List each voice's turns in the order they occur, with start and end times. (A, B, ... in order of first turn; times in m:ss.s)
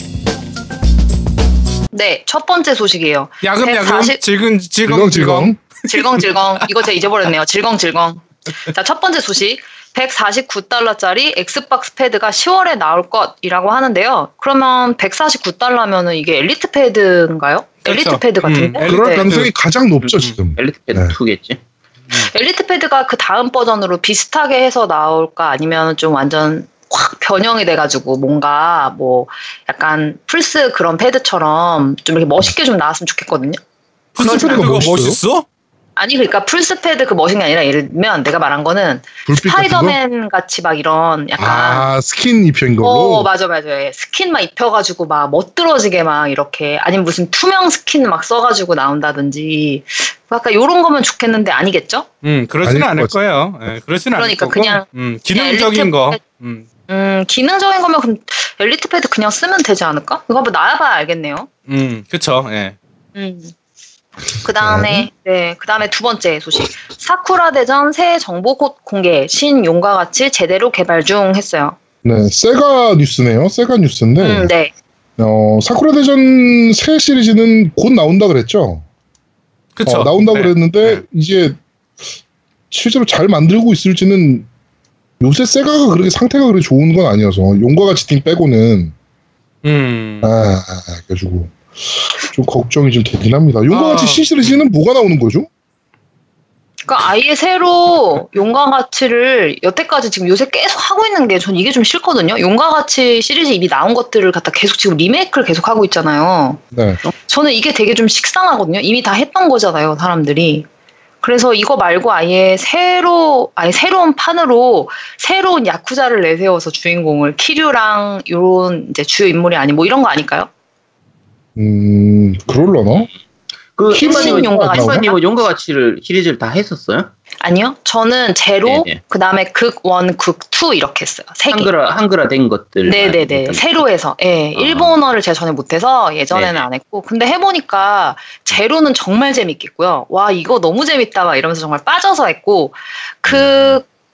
0:01.9-0:04.2 A
0:03.4-0:05.5 B
0:04.8-0:05.6 C
0:05.9-0:19.3 A
0:17.8-0:19.5 B
0:18.8-0:21.2 C
0:20.0-0:21.6 D
0:22.1-0:33.6 A
0:34.2-0:35.4 B
0:34.2-0:35.2 C
0:34.2-0:34.7 A
0:36.0-0:41.9 A
0:39.3-0:40.0 C
0:41.4-0:43.3 C
0:42.8-0:52.1 A
0:52.2-0:56.7 B
0:52.6-0:53.2 C
0:54.2-0:56.2 A
0:56.9-1:01.5 A
1:01.7-1:02.8 B
1:03.2-1:03.5 A
1:04.4-1:11.8 A
1:04.6-1:05.1 C
1:12.0-1:14.5 C
1:14.2-1:14.7 A
1:15.2-1:18.8 C
1:19.8-1:21.0 B
1:19.9-1:21.6 C
1:22.7-1:24.5 C
1:25.2-1:28.9 C
1:29.6-1:30.3 B
1:30.2-1:35.5 C
1:33.7-1:34.7 B
1:36.9-1:46.6 A
1:46.7-1:47.0 C
1:47.3-1:50.7 A
1:51.2-2:00.5 A
2:01.6-2:03.1 C
2:03.8-2:07.1 D
2:03.9-2:05.1 C
2:03.9-2:05.2 A
2:07.4-2:11.7 A
2:08.6-2:09.0 D
2:11.5-2:13.7 D
2:12.8-2:23.8 A
2:14.6-2:15.0 D
2:16.3-2:16.6 D
2:23.3-2:23.8 D